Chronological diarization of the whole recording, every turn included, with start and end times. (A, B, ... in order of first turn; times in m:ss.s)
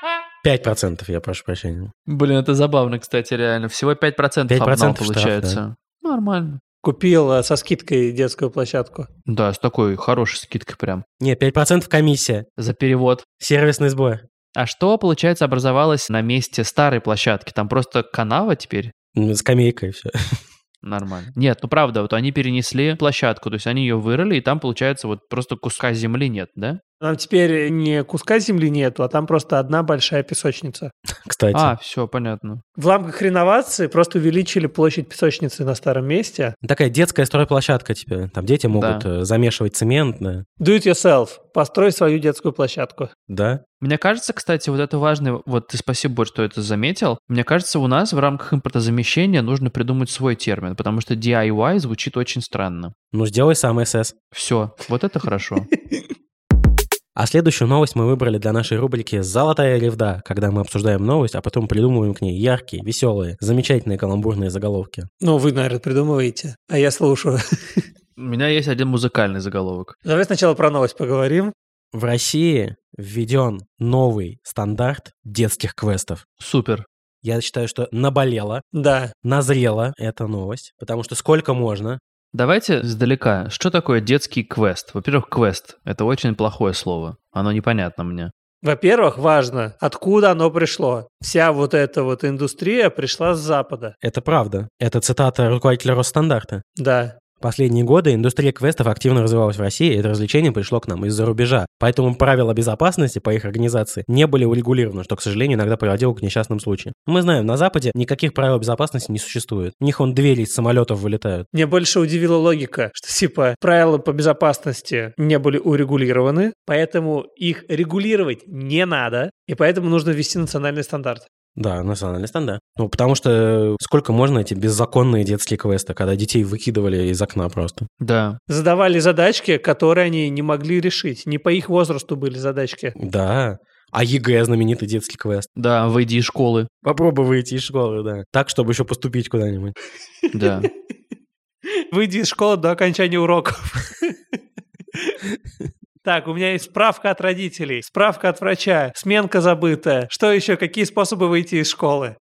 0:00.4-0:01.9 A
0:02.1-0:06.6 B
0:04.5-0:05.6 A
0:06.8-0:09.1 C
0:09.3-0:11.0 B
0:11.2-0:12.5 A
0:12.6-0:13.2 B
0:13.4-0:14.2 A
0:14.6-0:18.9 B
0:19.1-0:20.4 A
0:20.8-0:26.8 B
0:27.0-0:30.9 C
0:31.2-0:31.7 A
0:31.5-0:32.6 B
0:32.8-0:36.5 C
0:36.6-0:40.4 A
0:38.7-0:39.0 B
0:40.6-0:43.1 C
0:43.3-0:43.6 A
0:43.8-0:52.9 B
0:53.1-0:54.1 A
0:54.3-0:55.7 B
0:57.2-1:05.1 A
1:05.2-1:07.9 C
1:08.2-1:10.0 B
1:10.0-1:11.5 C
1:11.9-1:16.2 A
1:16.4-1:16.9 B
1:17.2-1:18.6 A
1:18.7-1:19.1 C
1:19.2-1:22.0 A
1:22.3-1:28.3 B
1:28.6-1:33.9 C
1:34.0-1:36.6 A
1:36.8-1:37.2 C
1:37.4-1:51.5 A
1:51.5-2:01.3 C
2:01.6-2:07.9 A
2:08.0-2:08.4 B
2:08.5-2:13.0 C
2:13.0-2:15.5 A
2:15.6-2:16.7 B
2:16.8-2:19.8 A
2:20.3-2:20.7 B
2:21.8-2:24.2 C
2:26.0-2:32.2 C